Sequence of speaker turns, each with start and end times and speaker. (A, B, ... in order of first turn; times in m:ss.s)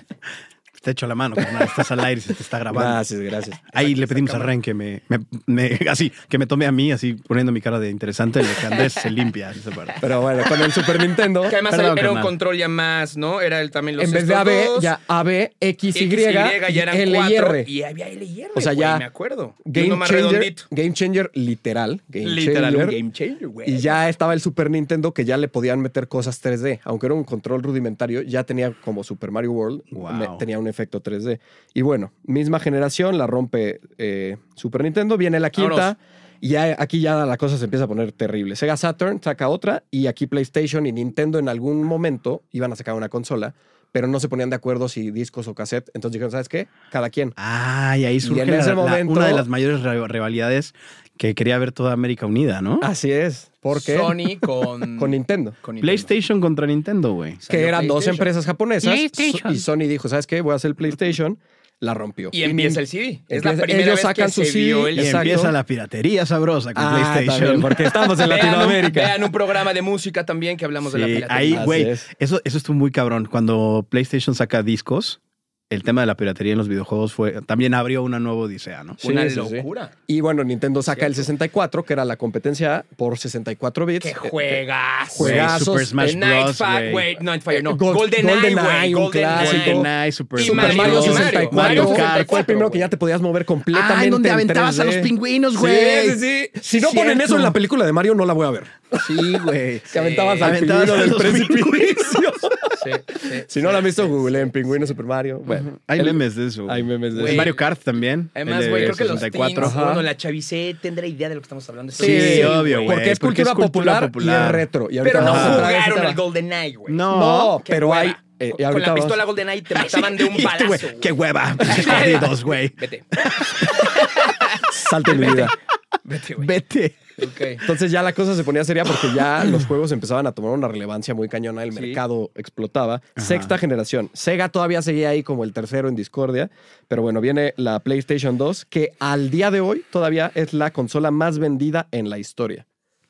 0:00.8-0:03.0 A
0:02.7-0:03.7 B
0:03.7-0:10.0 A
0:03.8-0:04.5 C
0:10.0-0:11.6 B
0:11.4-0:14.9 C
0:11.6-0:12.3 A
0:14.0-0:17.7 B
0:15.9-0:20.6 C
0:18.6-0:19.1 B
0:19.6-0:23.0 B
0:22.2-0:24.0 C
0:23.7-0:47.4 B
0:29.9-0:30.4 A
0:35.6-0:35.9 C
0:47.4-0:52.9 A
0:48.2-0:49.5 B
0:52.8-0:55.6 B
0:53.7-0:56.1 C
0:55.8-0:57.4 A
0:57.4-0:58.3 C
0:57.5-1:05.6 B
0:58.8-0:59.6 A
1:02.3-1:05.3 C
1:05.0-1:07.8 A
1:06.8-1:09.2 B
1:08.2-1:11.8 C
1:10.8-1:19.0 A
1:11.5-1:12.1 B
1:19.0-1:24.6 B
1:19.0-1:20.0 C
1:20.9-1:21.3 C
1:24.0-1:32.9 C
1:25.1-1:26.2 B
1:25.2-1:27.2 A
1:27.5-1:39.3 B
1:29.3-1:32.5 A
1:33.7-1:36.3 A
1:36.6-1:37.5 C
1:39.0-1:42.3 A
1:39.9-1:40.6 C
1:39.9-1:42.7 B
1:42.7-1:44.9 C
1:43.5-1:47.5 B
1:45.5-1:49.8 A
1:47.1-1:47.6 C
1:48.4-1:53.0 C
1:49.6-1:50.1 B
1:52.0-1:55.7 A
1:52.0-1:56.2 B
1:55.0-1:57.0 C
1:56.9-1:57.6 A
1:57.1-1:59.2 B
1:57.6-2:04.5 C
1:59.8-2:05.5 A
2:04.7-2:05.5 B
2:05.1-2:05.5 C
2:06.0-2:06.5 C
2:06.4-2:07.0 A
2:07.2-2:07.7 C
2:07.6-2:22.6 B
2:11.7-2:12.0 C
2:13.2-2:13.6 A